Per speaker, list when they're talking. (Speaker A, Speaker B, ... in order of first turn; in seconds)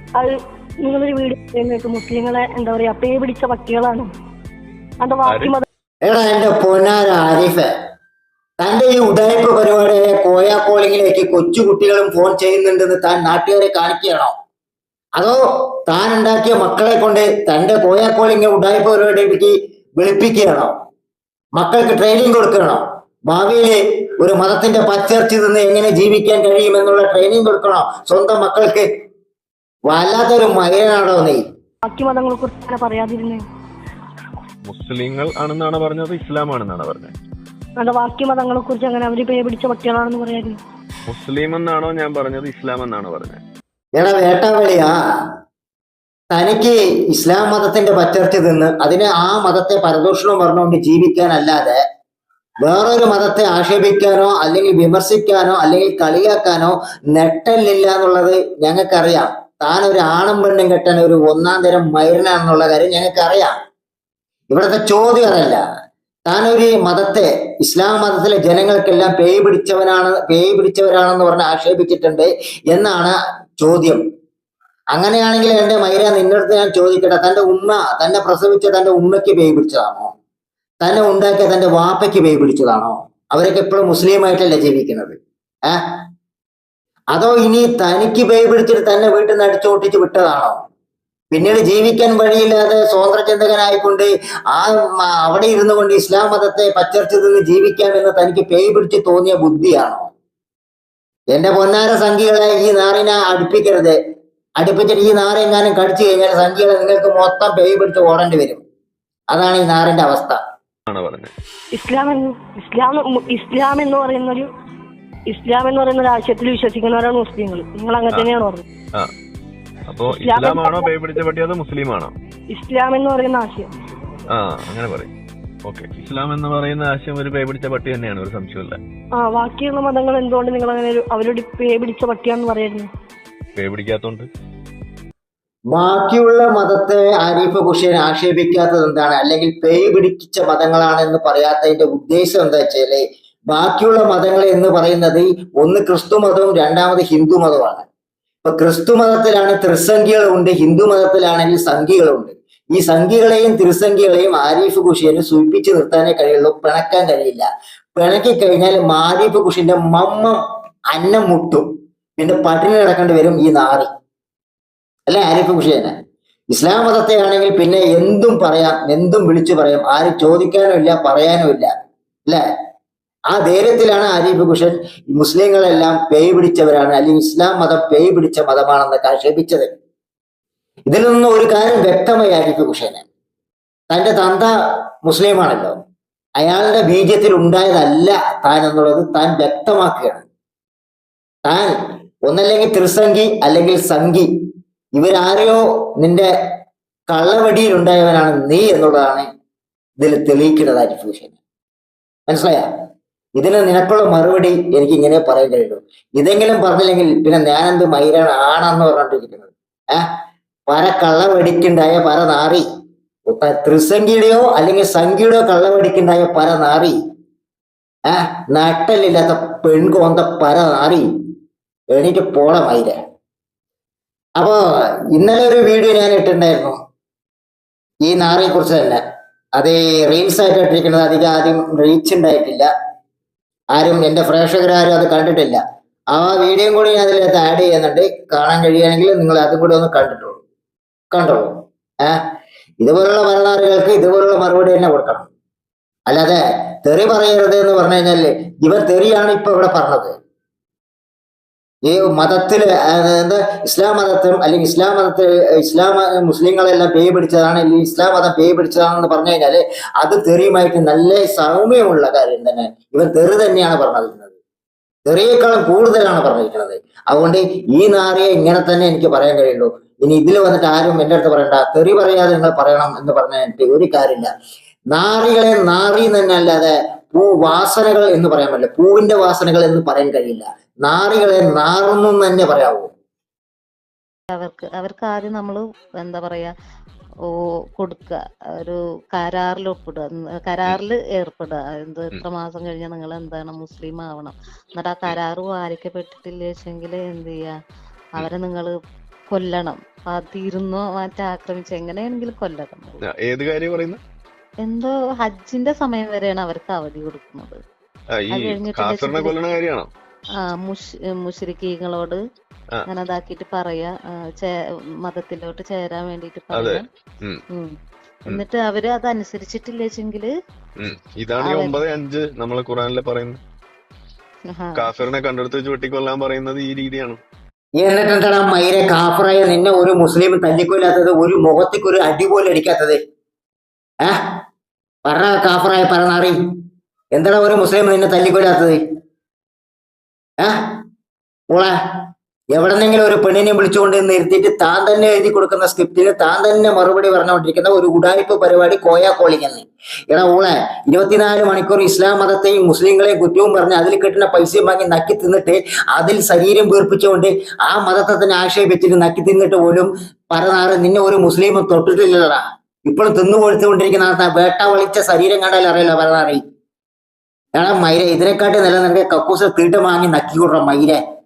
Speaker A: 0.1-4.1, 5.0-5.6, 31.9-33.4, 37.8-40.6, 111.7-114.5, 115.3-118.7, 120.1-120.9, 122.5-123.7, 129.2-132.9
Speaker B: 5.2-5.6, 34.6-37.1, 41.1-43.4, 110.9-111.3, 119.9-122.1, 124.3-125.1, 125.6-128.8, 133.6-134.3, 303.0-304.0, 308.2-309.9, 316.5-317.4, 320.8-323.4, 324.8-327.2
Speaker C: 6.0-7.7, 8.6-14.3, 15.2-20.7, 21.6-28.9, 29.9-31.4, 44.0-44.9, 46.3-51.8, 52.6-63.5, 64.5-65.6, 66.3-74.0, 74.9-80.1, 80.8-85.2, 87.1-90.5, 91.3-100.1, 101.3-104.0, 104.6-108.6, 109.3-110.4, 135.7-147.8, 148.4-160.4, 160.9-163.9, 165.1-165.9, 166.5-171.7, 173.3-179.7, 180.9-183.0, 183.9-184.5, 185.1-185.8, 186.4-190.2, 191.4-191.7, 192.2-194.3, 195.0-196.3, 197.1-199.3, 200.0-201.3, 202.3-202.7, 203.4-210.1, 210.7-212.7, 213.3-217.0, 218.1-221.0, 221.9-222.9, 225.1-226.8, 228.1-229.0, 229.6-232.7, 233.7-235.6, 236.1-240.4, 241.1-241.5, 242.8-245.3, 246.1-250.1, 251.9-264.3, 265.1-274.3, 274.9-282.9, 327.8-333.0, 335.1-336.4, 337.1-338.8, 342.5-366.4, 367.6-371.0
Speaker D: 284.3-286.5, 287.2-297.6, 298.1-298.8, 299.3-303.0, 304.6-307.6, 308.3-309.4, 310.4-312.2, 312.9-316.8, 317.5-317.7, 318.3-320.3, 321.4-321.8, 324.5-324.8